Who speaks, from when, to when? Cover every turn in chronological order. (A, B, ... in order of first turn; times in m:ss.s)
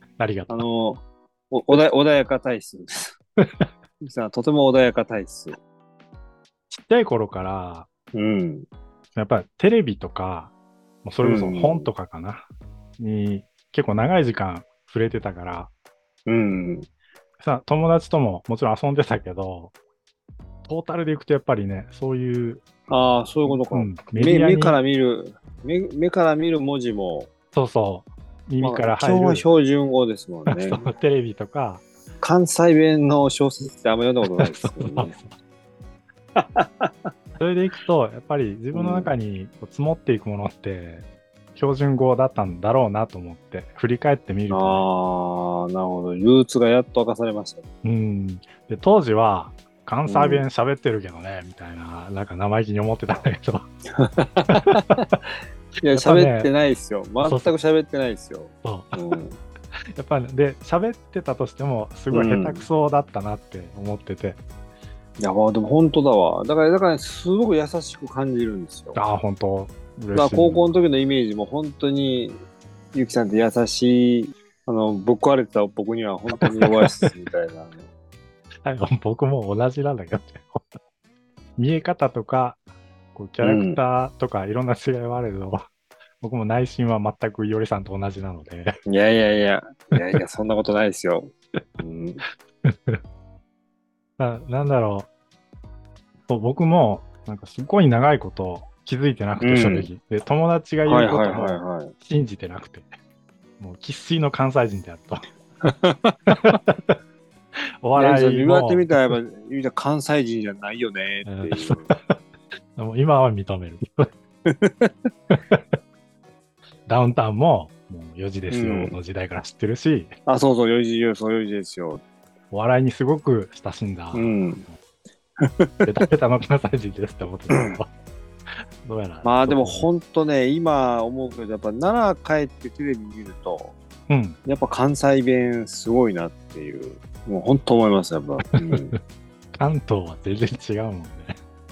0:00.2-0:00.7 A
0:00.5-0:03.2 B
0:03.4-0:03.7 A
0:04.0-0:05.6 B
0:06.7-0:07.9 A
0:08.1-0:08.7 B
0:09.2-0:10.5 A
0:11.0-0:12.5 A
0:11.2-0:11.9 B
0:13.0-0:15.7 A
0:16.3-0:16.9 B
0:17.4-0:19.7 A
0:20.6-0:22.7 A
0:22.9-0:27.3 B
0:23.5-0:24.8 A
0:27.5-0:29.5 A
0:28.6-0:30.9 B
0:30.5-0:31.8 A
0:32.2-0:35.2 B
0:34.4-0:35.3 A
0:36.4-0:37.1 B
0:37.4-0:44.9 A
0:38.7-0:39.1 B
0:44.5-0:47.7 B
0:47.8-0:53.7 A
0:50.1-0:50.5 B
0:53.9-0:55.1 B
0:54.5-0:54.9 A
0:55.8-0:59.4 B
0:55.9-0:56.5 A
0:57.2-0:57.6 A
0:58.6-0:59.2 A
1:00.0-1:04.4 A
1:02.1-1:02.7 B
1:05.2-1:09.0 B
1:09.0-1:10.7 A
1:10.1-1:12.4 B
1:12.9-1:17.9 B
1:16.4-1:17.1 A
1:18.6-1:20.7 A
1:21.6-1:22.6 A
1:23.1-1:25.6 A
1:23.4-1:23.8 B
1:26.2-1:28.8 A
1:28.9-1:32.2 B
1:32.6-1:33.0 A
1:34.2-1:35.1 A
1:36.3-1:42.9 A
1:39.4-1:39.9 B
1:40.9-1:41.9 B
1:43.6-1:45.2 A
1:45.6-1:46.2 B
1:46.3-1:47.0 A
1:47.8-1:49.1 A
1:48.0-1:51.9 B
1:51.3-1:52.2 A
1:52.8-1:54.1 A
1:54.5-1:54.9 B
1:55.3-1:55.6 A
1:56.9-2:00.1 A
1:58.5-1:59.0 B
2:00.3-2:02.0 B
2:02.5-2:04.4 A
2:04.1-2:04.6 B
2:05.4-2:05.9 B
2:05.8-2:07.9 A
2:07.5-2:07.8 B
2:08.8-2:09.9 A
2:09.2-2:13.8 B
2:14.1-2:14.4 A
2:14.5-2:19.0 B
2:18.6-2:19.0 A
2:19.5-2:21.4 A